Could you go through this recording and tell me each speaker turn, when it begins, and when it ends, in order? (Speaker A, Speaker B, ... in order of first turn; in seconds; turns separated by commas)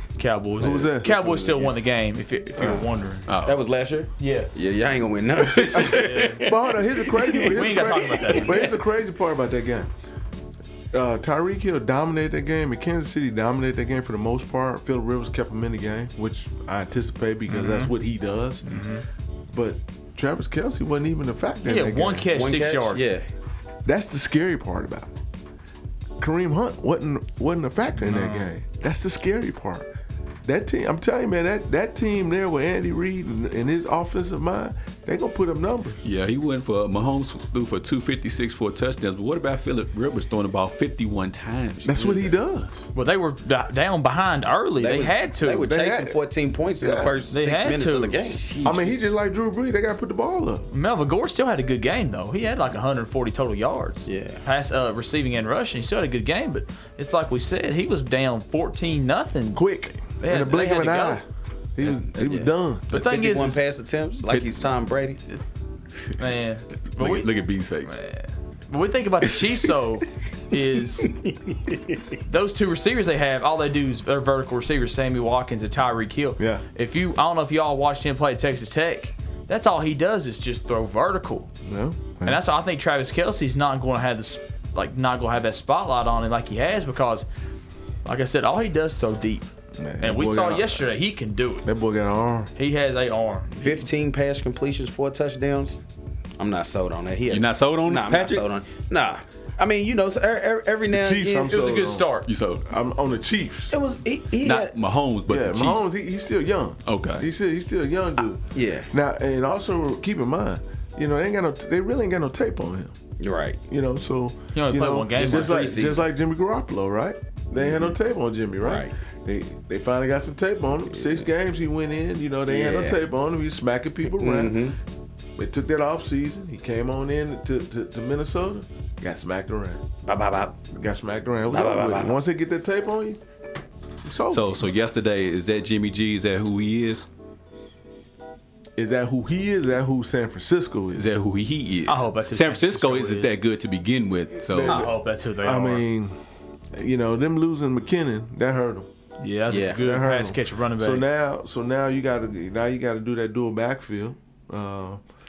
Speaker A: 0.2-3.3, Speaker B: 0.6-1.1, Speaker C: 0.7-1.7, Speaker B: 2.6-2.9, Speaker D: 3.3-3.6, Speaker C: 3.4-8.7, Speaker A: 4.2-4.5, Speaker D: 5.4-6.0, Speaker A: 5.7-6.5, Speaker B: 5.8-9.9, Speaker A: 7.2-8.7, Speaker B: 10.9-18.8, Speaker A: 17.5-17.9, Speaker A: 18.6-19.0, Speaker B: 19.5-22.3, Speaker A: 21.6-23.0, Speaker C: 22.3-23.3, Speaker B: 23.8-25.1, Speaker B: 26.2-29.9, Speaker A: 28.0-28.5, Speaker B: 30.4-36.0, Speaker D: 36.0-42.3, Speaker B: 41.8-42.8, Speaker A: 42.9-45.7, Speaker C: 44.8-48.9, Speaker B: 45.6-46.2, Speaker B: 46.8-47.1, Speaker A: 47.3-48.4, Speaker B: 48.6-50.7, Speaker A: 50.7-61.2, Speaker C: 54.0-54.4, Speaker B: 59.5-61.2, Speaker B: 61.8-62.9, Speaker D: 61.8-62.5, Speaker C: 62.2-65.2, Speaker A: 62.9-63.6, Speaker D: 64.2-64.5, Speaker A: 66.2-67.3, Speaker D: 66.9-67.9, Speaker A: 67.8-71.1, Speaker C: 71.0-72.0, Speaker A: 72.2-81.5, Speaker B: 81.6-82.4, Speaker A: 82.2-87.3, Speaker A: 88.0-89.4, Speaker B: 89.8-90.8, Speaker A: 90.0-91.7, Speaker B: 91.6-92.5, Speaker A: 92.5-93.7, Speaker C: 93.5-95.8, Speaker C: 96.4-101.6, Speaker D: 97.3-98.4, Speaker B: 100.9-102.1, Speaker A: 101.4-102.3, Speaker D: 102.2-102.6, Speaker B: 102.6-103.8, Speaker C: 103.7-104.8, Speaker D: 104.4-105.8, Speaker B: 105.3-113.0, Speaker D: 106.8-107.3, Speaker C: 108.5-108.9, Speaker C: 113.2-113.6, Speaker B: 113.7-124.7, Speaker A: 114.5-115.7, Speaker C: 115.1-116.1, Speaker C: 117.6-117.9, Speaker C: 118.6-118.9, Speaker C: 122.5-123.0, Speaker C: 124.1-124.8, Speaker B: 125.3-129.8, Speaker C: 130.0-130.7, Speaker B: 130.7-133.2, Speaker C: 131.5-132.2, Speaker B: 134.0-134.7, Speaker D: 134.3-137.1, Speaker B: 138.8-141.1, Speaker D: 140.9-144.9, Speaker A: 141.8-143.4, Speaker B: 144.5-146.2, Speaker A: 144.6-145.8, Speaker B: 146.7-148.9, Speaker A: 149.2-151.1, Speaker C: 149.5-149.8, Speaker B: 149.7-155.0